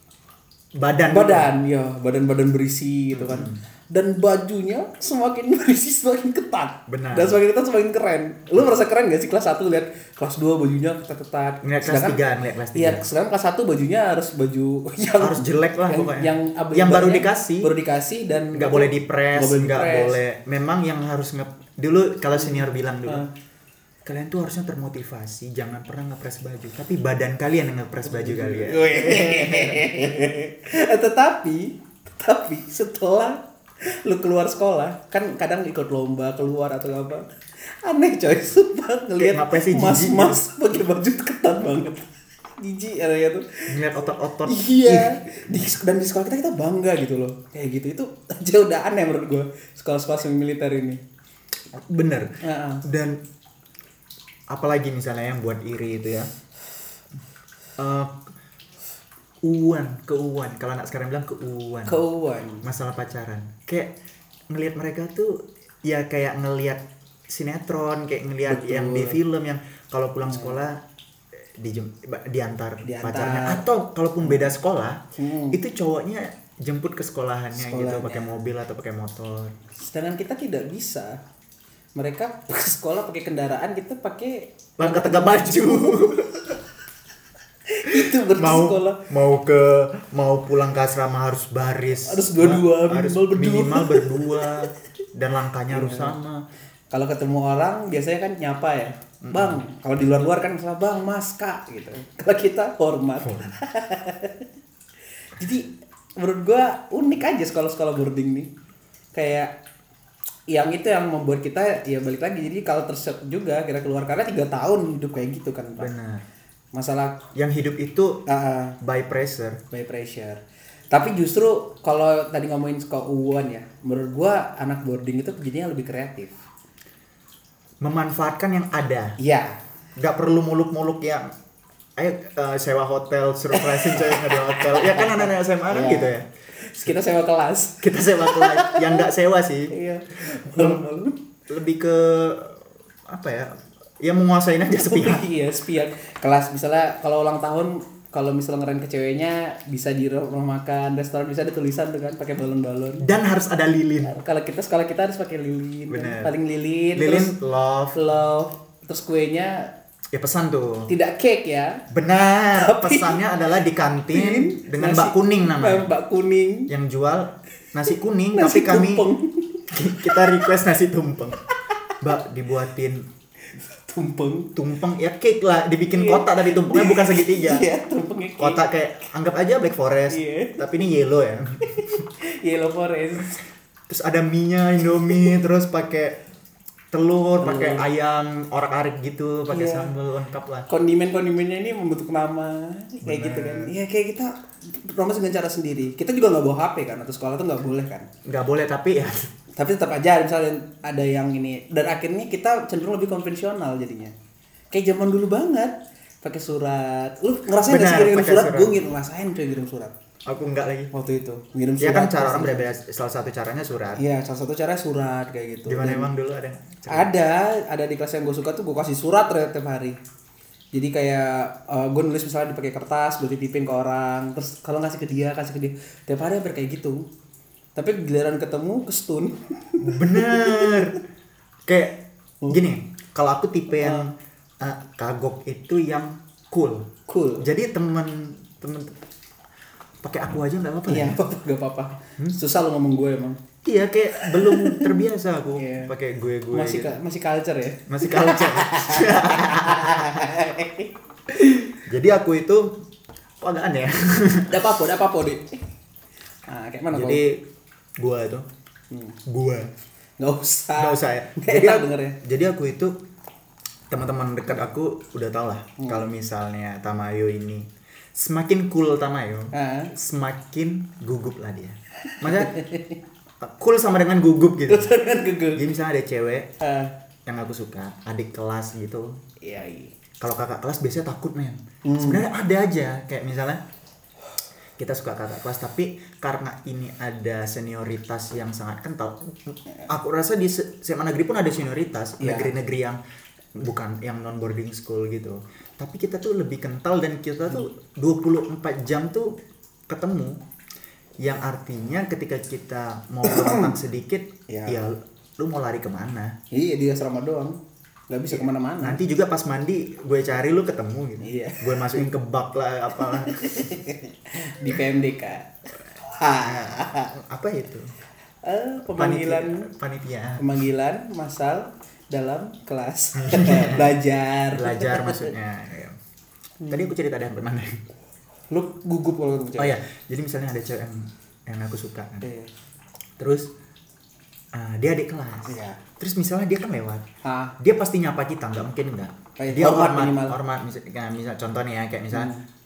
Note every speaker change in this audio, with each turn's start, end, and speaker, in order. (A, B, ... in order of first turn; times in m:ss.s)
0:00.8-0:01.5 A
0:01.1-0:12.2 B
0:03.1-0:03.6 A
0:06.9-0:07.4 A
0:11.6-0:13.0 A
0:12.7-0:20.2 B
0:15.2-0:17.7 A
0:18.5-0:23.3 A
0:22.3-0:23.3 B
0:24.0-0:29.9 A
0:28.0-0:43.6 B
0:39.2-0:40.4 A
0:43.7-0:45.2 A
0:44.4-0:51.0 B
0:51.7-0:53.2 A
0:52.4-0:52.8 B
0:54.5-0:56.3 A
0:57.8-0:58.3 A
0:59.4-1:02.0 A
1:01.9-1:02.6 B
1:02.6-1:03.9 A
1:04.5-1:10.8 A
1:08.4-1:09.2 B
1:10.2-1:10.6 B
1:11.5-1:19.5 A
1:12.8-1:13.6 B
1:14.2-1:14.5 B
1:15.2-1:15.6 B
1:17.5-1:18.4 B
1:19.8-1:21.2 B
1:21.9-1:26.2 B
1:24.8-1:26.5 A
1:27.7-1:29.0 B
1:27.8-1:36.4 A
1:31.9-1:34.7 B
1:35.7-1:36.2 B
1:36.9-1:44.5 B
1:39.2-1:39.6 A
1:43.2-1:43.6 A
1:45.4-1:48.5 B
1:49.1-1:49.5 B
1:50.5-1:55.9 B
1:55.8-1:56.2 A
1:56.7-1:57.2 B
1:57.3-1:58.2 A
1:58.2-1:58.8 B
1:58.8-1:59.6 A
1:59.7-2:06.4 B
2:07.8-2:09.2 A
2:09.2-2:09.6 B
2:10.0-2:11.3 A
2:12.0-2:16.3 A
2:13.5-2:19.1 B
2:17.8-2:20.9 A
2:19.7-2:21.2 B
2:21.5-2:25.3 A
2:24.8-2:33.0 B
2:33.0-2:34.2 A
2:34.0-2:37.3 B
2:35.9-2:36.3 A
2:36.9-2:38.0 A
2:37.9-2:39.7 B
2:40.1-2:40.9 A
2:40.9-2:41.8 B
2:41.9-2:45.9 A
2:42.5-2:43.2 B
2:44.1-2:46.7 B
2:46.7-2:49.0 A
2:47.9-2:50.5 B
2:49.7-2:51.4 A
2:51.6-2:52.0 B
2:52.0-2:53.1 A
2:53.5-2:54.5 B
2:54.5-2:57.7 A
2:55.9-2:58.7 B
2:58.4-3:02.0 A
3:00.1-3:00.6 B
3:01.6-3:03.4 B
3:03.9-3:06.2 A
3:06.9-3:10.7 A
3:07.4-3:07.9 B
3:09.5-3:09.9 B
3:10.7-3:18.1 B
3:13.0-3:13.7 A
3:18.2-3:19.3 A
3:19.5-3:24.1 B
3:24.7-3:29.9 B
3:27.6-3:28.8 A
3:30.2-3:30.9 A
3:30.9-3:32.7 B
3:31.8-3:34.0 A
3:34.0-3:36.1 B
3:35.6-3:37.1 A
3:36.9-3:40.0 B
3:40.7-3:47.1 B
3:47.7-3:51.0 B
3:49.8-3:51.0 A
3:51.7-3:59.0 A
3:53.8-3:54.1 B
3:57.1-3:57.5 B
4:00.0-4:01.2 A
4:00.9-4:03.4 B
4:03.6-4:07.0 A
4:04.2-4:05.9 B
4:06.5-4:10.9 B
4:07.9-4:10.2 A
4:11.5-4:12.8 A
4:13.4-4:14.6 A
4:14.5-4:15.7 B
4:16.5-4:17.2 B
4:16.9-4:17.4 A
4:18.0-4:18.5 A
4:18.9-4:19.2 B
4:19.2-4:19.7 A
4:20.2-4:22.2 B
4:20.8-4:22.9 A
4:23.9-4:32.6 A
4:25.8-4:26.0 B
4:29.5-4:29.9 B
4:32.1-4:33.0 B
4:33.4-4:34.9 A
4:34.7-4:35.6 B
4:35.5-4:36.5 A
4:36.6-4:36.9 B
4:37.3-4:39.1 A
4:39.4-4:39.9 B
4:40.2-4:43.6 A
4:41.8-4:42.2 B
4:44.8-4:53.0 A
4:52.2-4:52.5 B
4:53.6-4:59.4 A
4:59.9-5:00.4 A
5:01.2-5:06.4 A
5:03.2-5:03.7 B
5:04.5-5:04.8 B
5:06.5-5:09.0 B
5:08.3-5:13.7 A
5:11.2-5:12.1 B
5:13.0-5:17.1 B
5:16.4-5:17.9 A
5:18.4-5:19.7 B
5:18.9-5:20.4 A
5:20.4-5:25.3 B
5:23.2-5:23.9 A
5:24.5-5:26.0 A
5:26.6-5:26.9 B
5:26.7-5:27.8 A
5:28.5-5:29.8 B
5:29.6-5:32.3 A
5:32.2-5:32.5 B
5:33.2-5:33.5 A
5:34.5-5:37.0 A
5:35.5-5:35.8 B
5:37.2-5:37.5 B
5:37.6-5:42.3 A
5:39.4-5:40.4 B
5:42.1-5:42.4 B